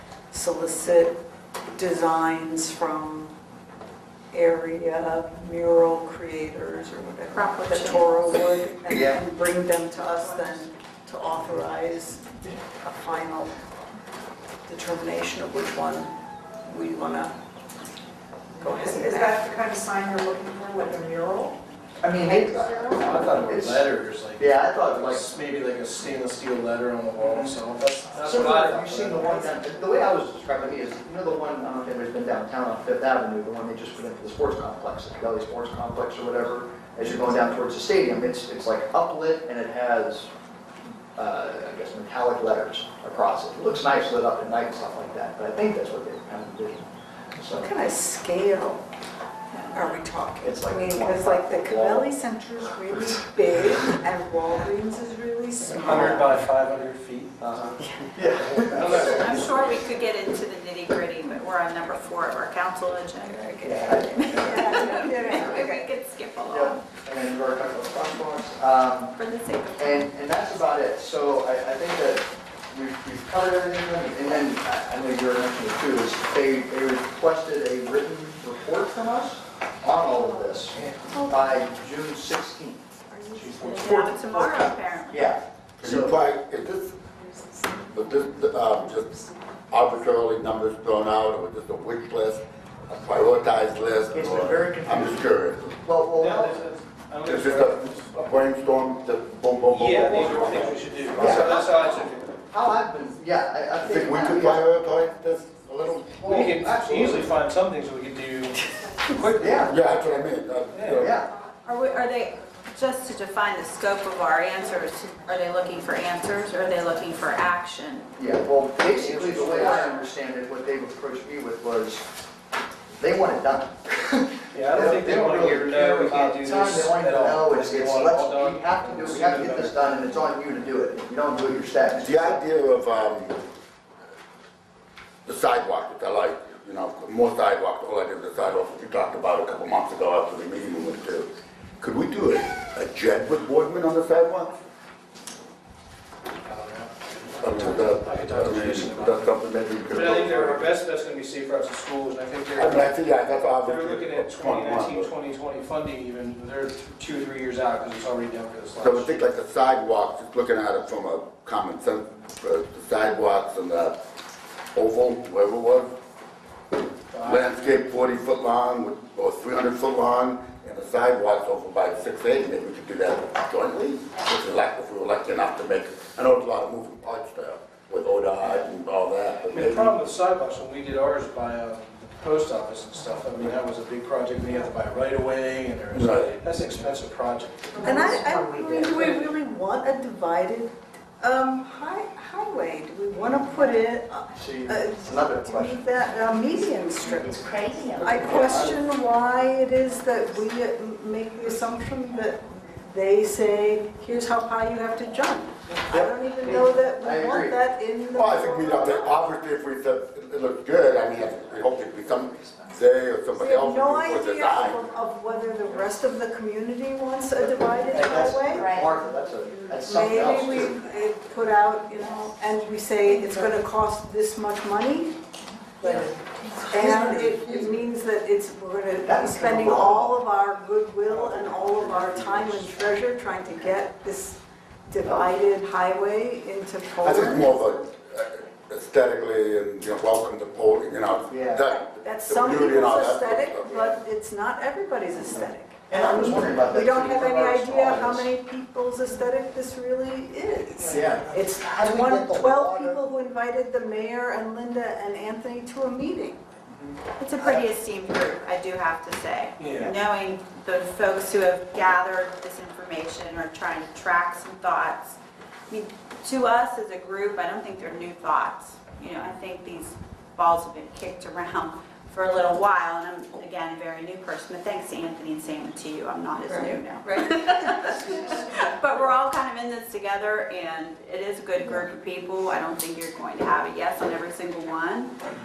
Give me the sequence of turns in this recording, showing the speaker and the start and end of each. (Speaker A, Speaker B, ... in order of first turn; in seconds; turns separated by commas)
Speaker A: 0.3-1.2, Speaker A: 1.7-3.3, Speaker A: 4.3-13.5, Speaker B: 7.3-8.1, Speaker C: 8.9-9.2, Speaker A: 14.7-16.1, Speaker A: 16.6-17.3, Speaker A: 18.6-19.4, Speaker D: 18.6-21.6, Speaker C: 22.0-25.3, Speaker D: 22.2-23.0, Speaker E: 22.9-29.5, Speaker C: 27.2-27.6, Speaker C: 28.2-40.3, Speaker C: 41.1-47.7, Speaker A: 47.5-48.8, Speaker A: 49.7-56.4, Speaker C: 50.4-52.1, Speaker E: 55.8-57.5, Speaker C: 57.4-59.8, Speaker E: 58.4-59.3, Speaker B: 58.9-66.8, Speaker A: 63.2-65.9, Speaker C: 63.6-65.4, Speaker C: 66.5-69.2, Speaker B: 69.1-70.1, Speaker C: 69.8-82.9, Speaker E: 80.8-81.0, Speaker A: 83.1-83.5, Speaker E: 83.3-84.1, Speaker B: 83.6-85.3, Speaker C: 84.3-86.2, Speaker F: 85.8-87.0, Speaker F: 87.8-89.1, Speaker F: 89.7-95.8, Speaker C: 94.1-95.3, Speaker C: 95.8-96.6, Speaker E: 96.1-98.5, Speaker F: 97.2-101.4, Speaker E: 99.7-102.4, Speaker C: 101.1-104.7, Speaker F: 103.8-106.3, Speaker C: 106.2-107.3, Speaker E: 106.2-110.0, Speaker C: 109.4-109.8, Speaker F: 109.6-111.2, Speaker E: 110.7-111.2, Speaker C: 110.9-111.3, Speaker B: 111.6-118.1, Speaker C: 118.1-122.1, Speaker E: 118.9-119.9, Speaker B: 119.6-120.0, Speaker C: 122.9-132.4, Speaker E: 124.5-130.1, Speaker F: 132.0-133.4, Speaker F: 135.2-144.6, Speaker E: 146.4-152.9, Speaker F: 147.4-150.7, Speaker F: 152.5-155.1, Speaker E: 153.6-159.2, Speaker F: 158.8-163.9, Speaker F: 164.7-165.9, Speaker E: 167.1-167.8, Speaker F: 167.2-179.9, Speaker E: 179.5-187.9, Speaker F: 185.9-186.3, Speaker D: 187.7-189.2, Speaker A: 187.8-209.2, Speaker C: 194.3-195.9, Speaker D: 196.4-198.6, Speaker C: 198.0-198.7, Speaker C: 205.9-207.6, Speaker F: 208.1-214.8, Speaker A: 213.3-218.7, Speaker C: 217.4-220.8, Speaker B: 218.5-218.9, Speaker A: 219.8-225.2, Speaker D: 223.0-223.6, Speaker D: 225.8-227.6, Speaker C: 225.8-226.1, Speaker A: 226.7-237.6, Speaker C: 226.8-227.7, Speaker C: 229.0-230.2, Speaker E: 231.1-232.9, Speaker C: 235.0-235.3, Speaker F: 237.0-243.7, Speaker C: 241.3-241.7, Speaker A: 241.8-256.4, Speaker C: 243.6-244.0, Speaker C: 245.4-248.3, Speaker E: 250.8-251.2, Speaker C: 250.9-253.0, Speaker C: 256.9-257.6, Speaker B: 257.2-265.1, Speaker E: 259.6-259.9, Speaker B: 265.7-285.1, Speaker A: 276.4-278.6